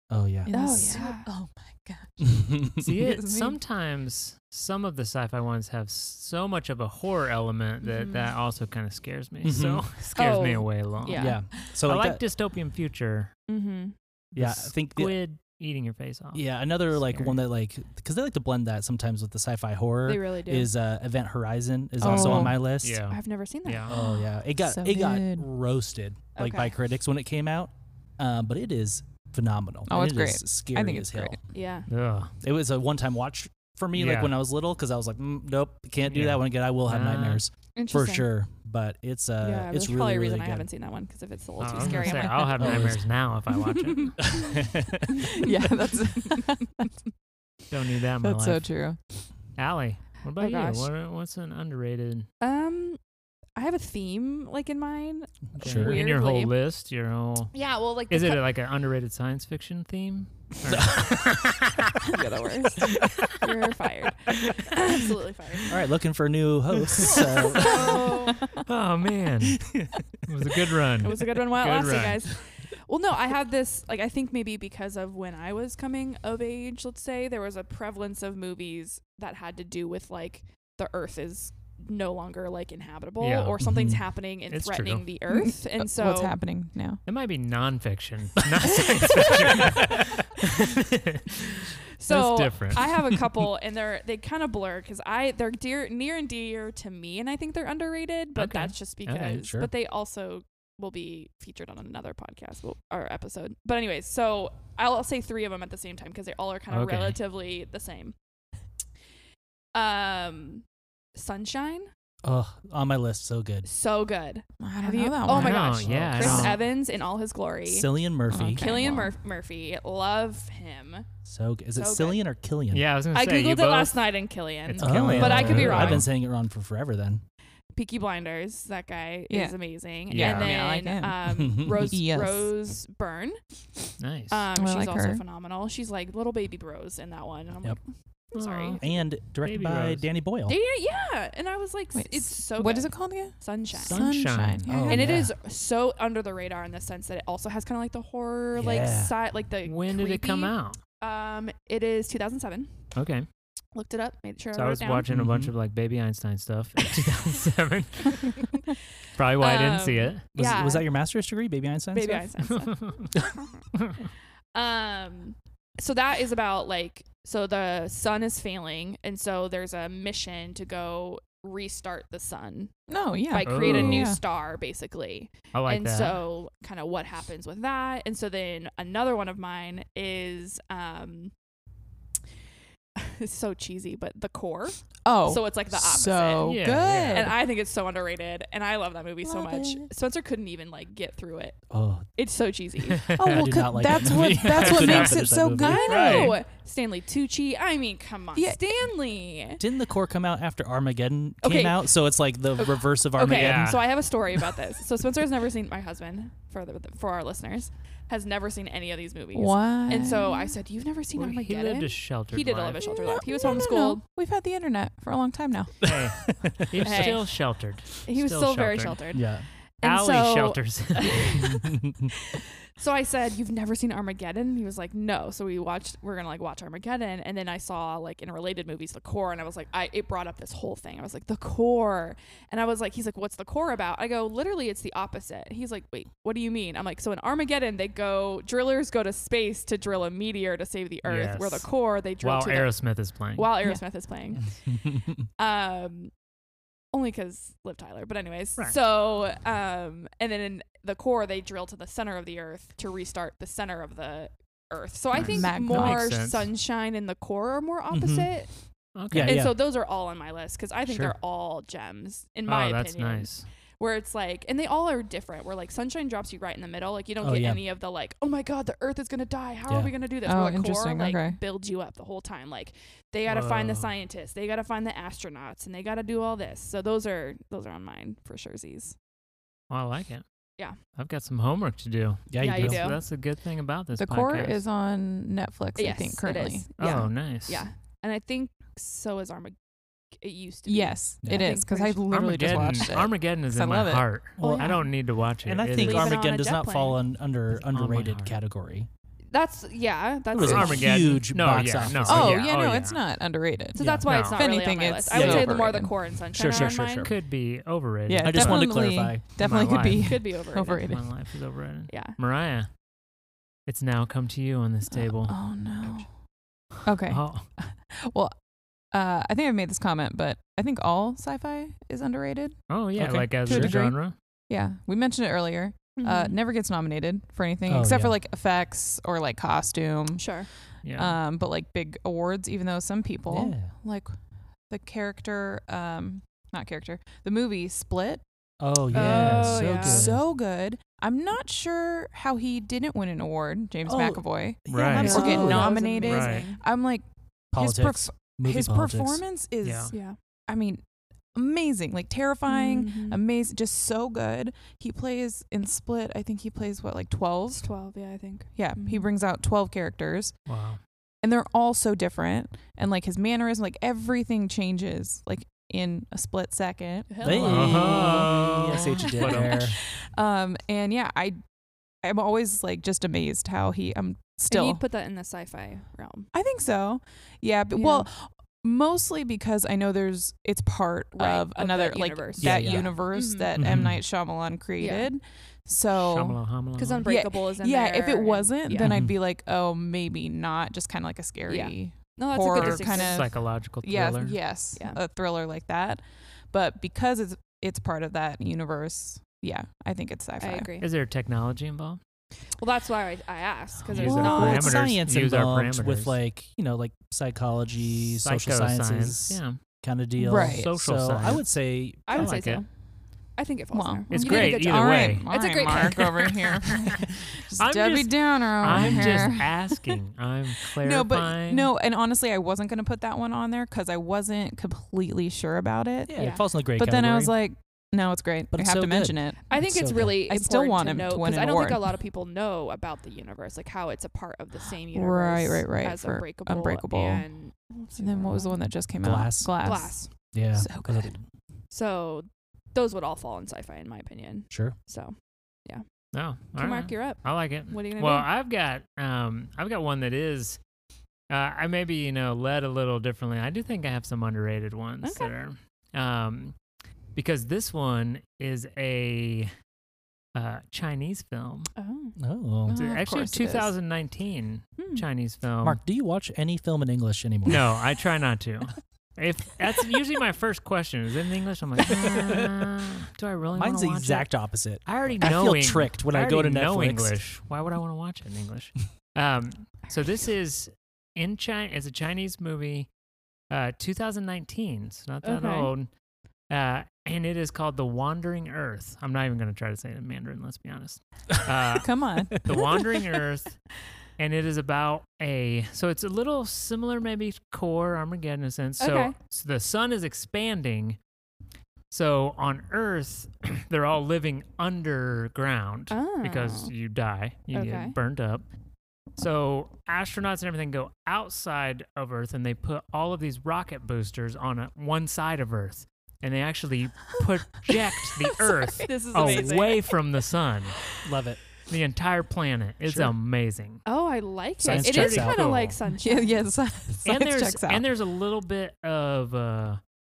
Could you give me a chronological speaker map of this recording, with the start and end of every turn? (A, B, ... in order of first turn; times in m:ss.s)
0:00.1-0:01.0 A
0:00.5-0:03.6 B
0:00.5-0:01.3 C
0:02.2-0:02.9 A
0:02.8-0:13.3 D
0:07.8-0:08.3 C
0:09.4-0:09.8 A
0:10.2-0:11.4 C
0:11.2-0:12.2 A
0:13.5-0:14.0 C
0:14.3-0:17.4 D
0:14.4-0:15.2 A
0:16.3-0:23.0 A
0:20.1-0:20.7 C
0:22.0-0:22.6 B
0:22.0-0:23.9 D
0:23.1-0:23.9 C
0:23.9-0:31.4 A
0:23.9-0:25.5 B
0:26.4-0:26.7 C
0:29.9-0:31.4 B
0:31.5-0:31.9 C
0:31.9-0:32.3 D
0:32.4-0:40.7 A
0:34.0-0:34.3 D
0:36.1-0:37.4 D
0:37.8-0:38.3 C
0:39.4-0:42.9 C
0:41.6-0:44.2 D
0:41.8-0:43.0 A
0:44.2-0:45.5 A
0:45.1-0:46.9 B
0:47.7-0:48.7 D
0:48.2-0:49.0 B
0:49.6-0:52.3 D
0:50.4-0:50.9 C
0:52.4-0:53.0 C
0:53.6-0:56.5 C
0:55.6-0:57.6 D
0:55.6-0:56.0 A
0:57.5-0:58.5 C
0:58.1-1:02.0 D
1:00.7-1:01.4 A
1:02.0-1:05.8 C
1:02.8-1:03.4 D
1:02.8-1:03.3 A
1:05.7-1:08.2 A
1:07.0-1:08.5 C
1:07.7-1:08.6 B
1:08.5-1:09.6 D
1:09.5-1:10.1 A
1:10.3-1:12.2 D
1:11.0-1:26.4 C
1:23.2-1:23.6 D
1:23.6-1:24.0 A
1:24.5-1:25.1 D
1:25.3-1:27.0 B
1:27.1-1:33.0 D
1:29.2-1:29.6 C
1:29.3-1:30.1 A
1:32.0-1:48.2 C
1:38.4-1:39.4 D
1:39.4-1:39.7 A
1:46.7-1:47.2 D
1:49.7-1:51.9 C
1:52.2-1:53.7 A
1:53.6-1:57.9 C
1:54.6-1:56.5 B
1:55.3-1:56.6 D
1:55.8-1:56.6 A
1:57.7-1:58.7 A
1:58.3-1:59.1 B
1:58.5-2:01.1 C
2:01.2-2:02.9 A
2:01.8-2:02.2 C
2:02.7-2:04.0 D
2:03.1-2:06.1 C
2:04.6-2:06.1 D
2:04.8-2:07.2 A
2:07.8-2:13.4 C
2:09.3-2:09.6 B
2:10.1-2:10.6 D
2:10.1-2:12.5 B
2:11.3-2:12.0 A
2:14.0-2:14.5 D
2:14.3-2:19.0 C
2:14.6-2:15.2 B
2:18.4-2:18.8 D
2:18.8-2:20.6 A
2:19.4-2:20.1 D
2:20.5-2:24.1 C
2:22.0-2:25.2 B
2:23.8-2:24.8 D
2:24.7-2:25.3 A
2:24.9-2:32.7 C
2:28.6-2:29.1 A
2:29.6-2:30.8 D
2:33.0-2:33.3 D
2:33.8-2:35.1 C
2:34.5-2:38.5 D
2:35.1-2:35.5 A
2:39.2-2:40.2 D
2:39.4-2:40.9 C
2:40.3-2:42.3 A
2:41.9-2:42.9 C
2:42.4-2:43.1 D
2:43.7-2:44.1 D
2:44.5-3:01.3 C
2:52.9-2:54.2 B
2:53.4-2:54.1 D
2:55.5-2:56.2 D
3:03.0-3:11.6 C
3:05.0-3:07.3 B
3:06.4-3:07.3 D
3:09.3-3:09.8 B
3:11.7-3:12.1 A
3:12.2-3:13.1 C
3:13.1-3:13.4 D
3:13.2-3:16.4 B
3:13.3-3:15.9 A
3:14.3-3:16.4 D
3:15.6-3:19.6 C
3:18.4-3:18.6 B
3:19.6-3:23.8 A
3:21.4-3:21.8 C
3:22.7-3:34.0 C
3:23.2-3:23.9 D
3:29.3-3:30.6 B
3:31.2-3:32.9 D
3:32.9-3:35.9 B
3:35.8-3:37.1 A
3:35.8-3:39.0 D
3:36.8-3:37.3 C
3:38.0-4:02.8 C
3:39.1-3:39.5 A
3:39.8-3:41.5 D
3:41.4-3:42.1 A
4:01.0-4:03.5 D
4:03.3-4:04.5 C
4:04.7-4:05.2 A
4:05.4-4:06.1 C
4:06.9-4:18.5 C
4:15.2-4:16.5 D
4:15.3-4:16.1 B
4:17.9-4:18.3 A
4:19.0-4:19.4 D
4:19.1-4:19.6 A
4:19.1-4:39.0 C
4:20.9-4:21.1 A
4:22.5-4:23.5 D
4:27.2-4:27.6 A
4:30.2-4:31.4 B
4:33.3-4:33.9 D
4:39.7-4:40.2 D
4:41.0-4:44.6 D
4:42.3-4:42.9 A
4:42.4-4:43.0 C
4:44.0-4:46.7 B
4:45.8-4:49.6 C
4:46.8-4:47.6 D
4:50.2-4:52.0 C
4:50.7-4:54.1 B
4:51.2-4:51.6 A
4:52.1-4:56.2 D
4:54.4-4:54.8 A
4:54.4-4:54.8 C
4:55.4-4:58.9 A
4:55.8-4:57.0 C
4:57.6-4:58.4 D
4:59.3-5:00.9 C
5:00.3-5:02.4 A
5:00.4-5:03.0 D
5:02.1-5:05.9 B
5:03.7-5:07.1 C
5:03.8-5:04.1 A
5:04.0-5:04.4 D
5:05.1-5:05.8 A
5:06.3-5:07.2 A
5:06.6-5:10.3 D
5:08.1-5:11.0 B
5:08.2-5:09.2 A
5:10.0-5:10.9 C
5:10.9-5:12.7 D
5:11.9-5:12.2 C
5:13.7-5:15.4 D
5:14.9-5:16.1 B
5:16.8-5:18.4 B
5:17.1-5:17.5 D
5:18.9-5:22.6 B
5:22.7-5:24.1 D
5:23.0-5:23.8 A
5:23.4-5:24.0 B
5:24.5-5:30.4 B
5:26.0-5:26.4 C
5:27.7-5:28.2 A
5:30.2-5:30.5 C
5:30.8-5:31.2 D
5:31.0-5:34.2 B
5:33.3-5:33.7 A
5:34.7-5:38.2 B
5:38.6-5:40.3 A
5:38.9-5:40.1 C
5:39.0-5:50.8 B
5:39.0-5:39.5 D
5:43.9-5:45.8 A
5:44.7-5:46.5 D
5:45.0-5:46.6 C
5:47.5-5:49.2 A
5:49.6-5:49.9 D
5:49.9-5:50.2 C
5:51.3-5:57.7 B
5:52.5-5:53.2 C
5:57.6-5:59.1 C
5:58.6-6:00.4 B
6:00.5-6:00.8 D
6:01.2-6:08.0 B
6:07.1-6:08.3 C
6:07.2-6:09.8 A
6:07.4-6:09.6 D
6:09.3-6:11.4 B
6:12.0-6:14.8 B
6:14.5-6:16.3 C
6:16.3-6:26.4 B
6:17.7-6:18.1 C
6:21.2-6:23.5 C
6:22.4-6:23.0 A
6:23.6-6:24.0 A
6:24.8-6:25.1 C
6:25.9-6:27.1 D
6:26.8-6:29.0 C
6:27.0-6:40.7 B
6:28.8-6:29.2 A
6:31.5-6:33.2 C
6:32.5-6:34.4 D
6:34.8-6:35.0 C
6:40.4-6:40.9 C
6:40.8-6:42.0 D
6:42.6-6:44.9 C
6:43.9-6:46.2 D
6:44.0-6:44.7 B
6:44.1-6:52.3 A
6:48.2-6:49.6 D
6:50.2-6:50.7 B
6:50.3-6:51.4 D
6:52.1-6:52.6 D
6:52.1-6:52.7 C
6:53.4-6:56.4 C
6:53.7-7:00.0 B
6:54.1-6:57.0 D
6:57.6-7:01.7 D
6:58.6-6:59.4 A
7:00.7-7:11.9 B
7:06.1-7:07.4 A
7:06.2-7:06.4 C
7:08.5-7:10.2 A
7:09.5-7:18.6 C
7:14.9-7:17.3 B
7:18.0-7:20.0 B
7:19.0-7:19.8 A
7:19.6-7:20.1 C
7:20.3-7:21.2 A
7:20.5-7:21.2 B
7:21.7-7:25.2 C
7:24.5-7:24.8 A
7:26.1-7:30.6 D
7:26.6-7:28.3 C
7:31.3-7:36.6 D
7:35.0-7:35.3 C
7:37.2-7:39.5 D
7:40.4-7:41.7 D
7:41.8-7:42.2 C
7:42.2-7:42.8 A
7:42.7-7:43.7 B
7:42.7-7:45.8 D
7:44.8-7:45.0 C
7:45.6-7:47.7 A
7:47.5-7:54.3 D
7:51.9-7:52.6 A
7:53.5-7:57.2 A
7:54.8-8:02.9 D
8:03.5-8:05.9 D
8:05.2-8:05.7 C
8:06.5-8:13.6 D
8:11.8-8:12.6 B
8:14.2-8:21.0 D
8:18.8-8:19.2 C
8:21.9-8:28.4 D
8:25.9-8:26.7 C
8:27.5-8:28.0 C
8:29.2-8:40.9 D
8:38.3-8:38.8 B
8:38.8-8:39.9 C
8:41.0-8:41.4 A
8:41.7-8:43.8 D
8:42.8-8:43.1 A
8:43.8-8:46.4 C
8:44.6-8:45.4 A
8:44.6-8:45.8 D
8:45.9-8:47.8 B
8:47.0-8:49.8 D